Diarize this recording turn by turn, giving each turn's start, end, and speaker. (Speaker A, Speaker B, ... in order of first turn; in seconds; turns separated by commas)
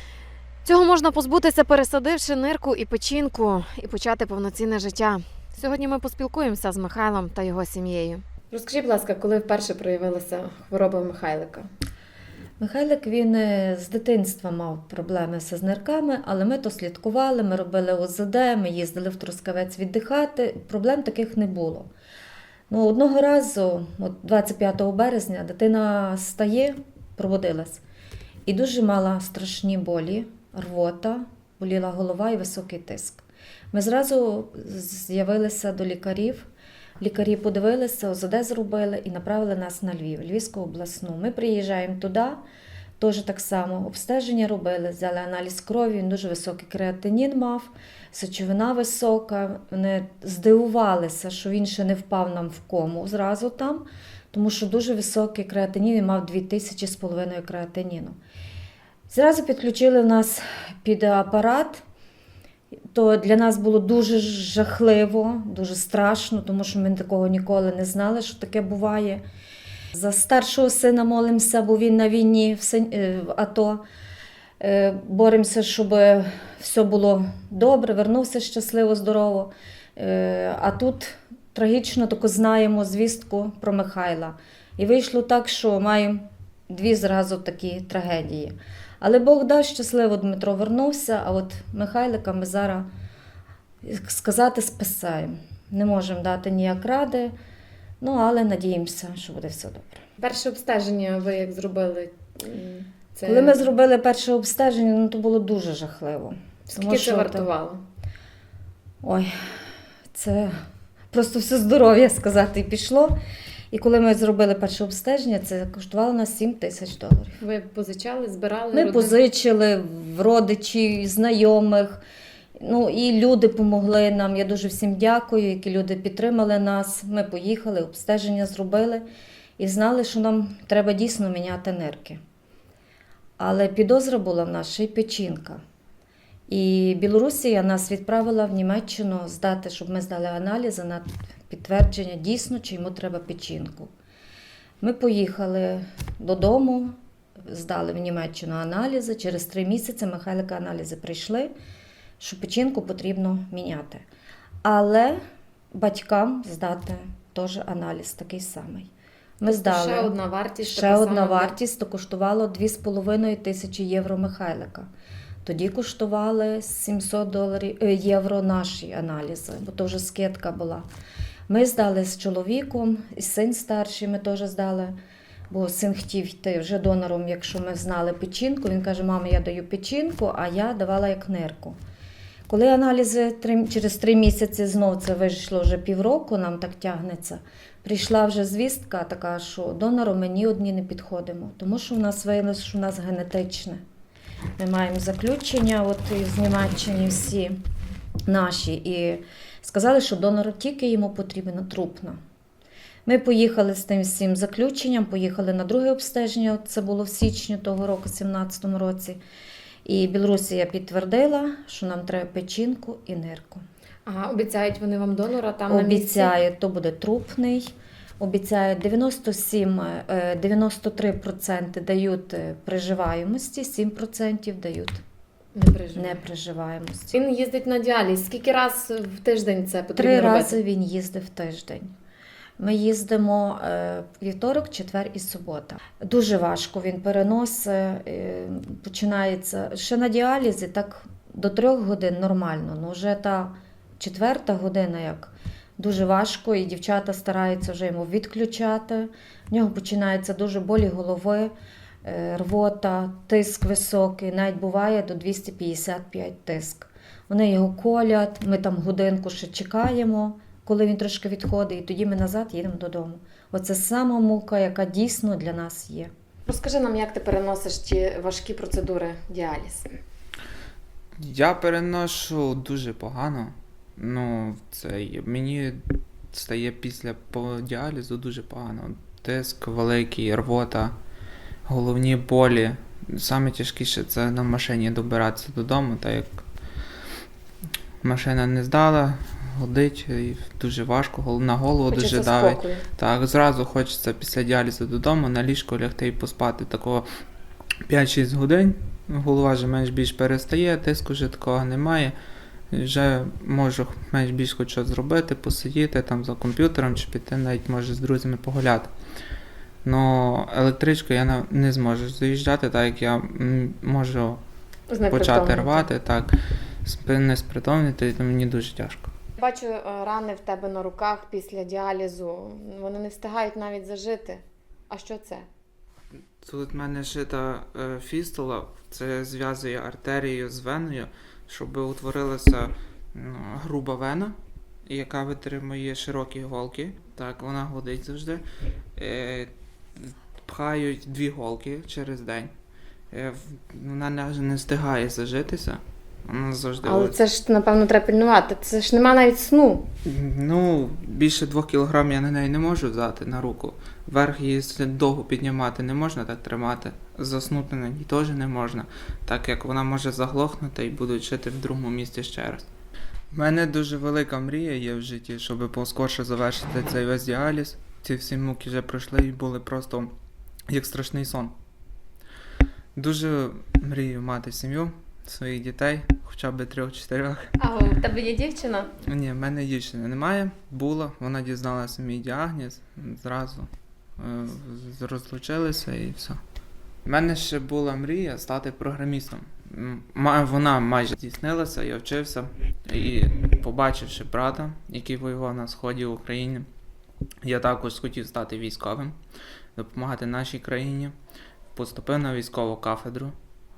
Speaker A: 0.7-11.7, Speaker B: 12.6-21.9, Speaker B: 22.7-27.8, Speaker B: 28.5-36.5, Speaker B: 37.0-42.4, Speaker B: 43.0-58.2, Speaker B: 59.1-61.8, Speaker B: 62.9-69.2, Speaker B: 69.9-73.8, Speaker B: 74.6-92.9, Speaker B: 93.8-97.3, Speaker B: 98.0-100.0, Speaker A: 100.2-103.6, Speaker B: 103.2-107.5, Speaker A: 106.7-107.8, Speaker B: 109.0-109.3, Speaker B: 110.1-110.5, Speaker B: 111.1-113.2, Speaker B: 113.7-117.4, Speaker A: 117.4-119.2, Speaker B: 118.7-122.0, Speaker B: 122.6-129.0, Speaker B: 129.6-132.2, Speaker B: 133.4-135.6, Speaker B: 136.5-143.9, Speaker B: 144.8-146.9, Speaker B: 147.5-151.5, Speaker B: 152.2-154.0, Speaker B: 154.6-155.2, Speaker B: 155.7-164.9, Speaker A: 159.5-161.6, Speaker B: 165.4-170.9, Speaker B: 171.5-175.0, Speaker B: 175.5-181.8, Speaker B: 182.5-193.8, Speaker B: 194.6-197.6, Speaker B: 198.3-202.2, Speaker B: 203.1-209.2, Speaker B: 209.8-213.6, Speaker A: 214.1-216.3, Speaker B: 215.7-225.0, Speaker A: 225.6-226.2, Speaker B: 226.0-227.1, Speaker A: 227.1-230.6, Speaker B: 230.0-231.9, Speaker B: 232.6-251.5, Speaker B: 252.0-266.1, Speaker A: 266.5-269.9, Speaker C: 271.2-275.8, Speaker C: 276.3-280.9, Speaker C: 281.7-286.4, Speaker C: 288.0-297.1, Speaker A: 291.9-292.8, Speaker C: 297.9-302.1, Speaker C: 302.7-308.9, Speaker C: 309.8-314.4, Speaker A: 314.9-315.9, Speaker C: 315.1-319.1, Speaker A: 319.4-325.4, Speaker C: 326.4-338.4, Speaker C: 339.0-342.5, Speaker C: 343.1-347.2, Speaker A: 346.8-349.9, Speaker C: 350.0-362.7, Speaker C: 363.3-370.1, Speaker C: 370.7-371.5, Speaker C: 373.0-377.6, Speaker A: 377.6-378.9, Speaker C: 379.0-386.4, Speaker C: 387.1-396.7, Speaker C: 397.4-399.2, Speaker C: 399.8-401.1, Speaker C: 401.7-403.4